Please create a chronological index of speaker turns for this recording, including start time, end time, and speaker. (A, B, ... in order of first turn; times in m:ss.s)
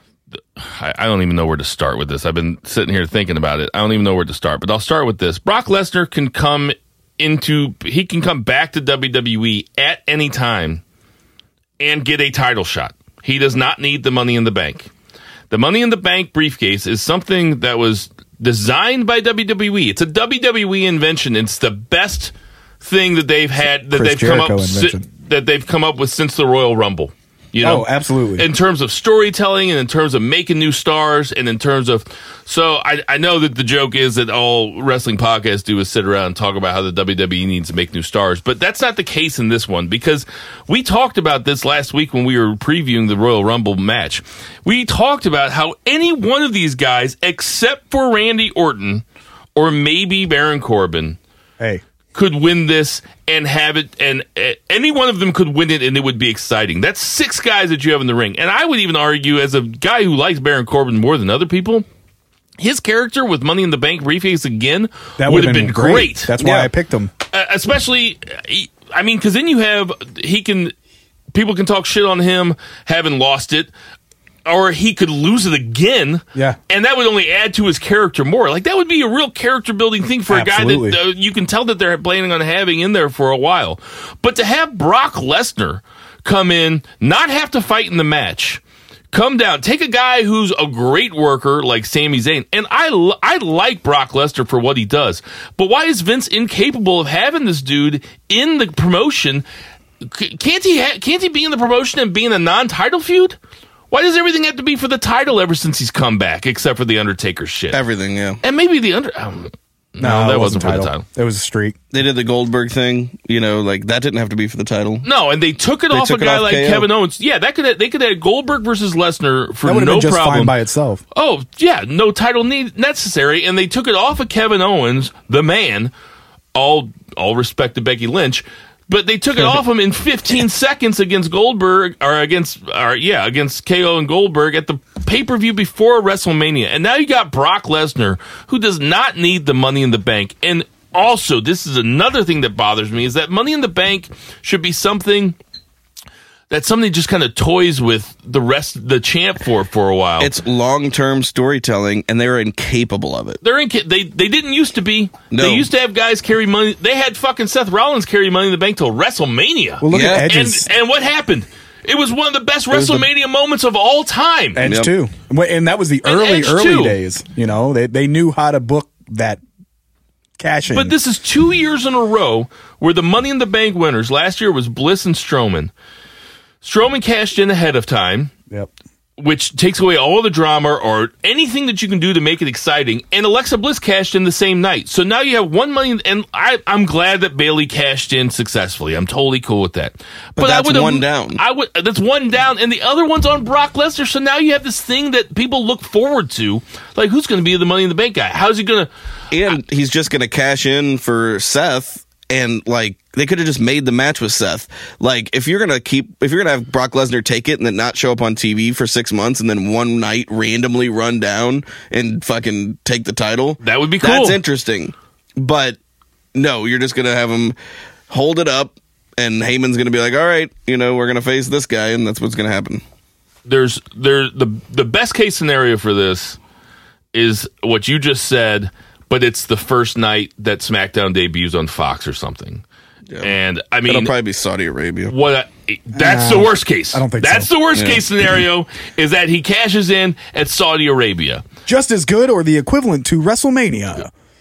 0:00.6-0:10.8 A
0:11.8-0:14.9 A
0:15.5-0:51.2 A
0:23.9-0:25.0 B
0:27.6-0:28.5 B
0:52.1-1:01.8 A
1:02.6-1:06.6 A
1:05.2-1:07.1 B
1:07.3-1:10.8 A
1:11.3-1:13.7 A
1:14.4-1:28.6 A
1:20.3-1:21.0 B
1:29.1-1:39.4 A
1:40.0-1:43.4 A
1:43.9-1:47.8 A
1:47.7-1:48.4 C
1:48.4-1:51.0 A
1:50.0-1:51.8 B
1:51.9-1:55.1 C
1:55.0-2:00.6 A
1:55.9-1:56.9 C
1:59.6-2:01.0 B
2:01.1-2:05.9 A
2:06.6-2:25.4 A
2:26.5-2:30.3 A
2:30.2-2:33.4 C
2:33.4-2:44.6 A
2:35.3-2:35.7 C
2:39.8-2:40.7 B
2:39.9-2:40.3 C
2:42.7-2:43.0 C
2:44.6-2:49.4 B
2:44.6-2:44.9 C
2:46.0-2:47.0 A
2:50.4-2:51.0 B
2:50.7-2:55.7 A
2:56.6-2:58.3 A
2:59.2-3:18.9 A
3:10.4-3:11.4 C
3:19.3-3:35.8 C
3:33.6-3:34.4 A
3:36.4-3:37.6 C
3:38.1-3:42.8 C
3:43.4-3:46.4 A
3:47.1-3:52.6 A
3:53.2-3:54.1 A
3:53.9-3:55.1 C
3:55.1-4:01.4 A
3:55.9-3:57.5 B
3:57.8-3:58.0 C
4:01.7-4:04.1 B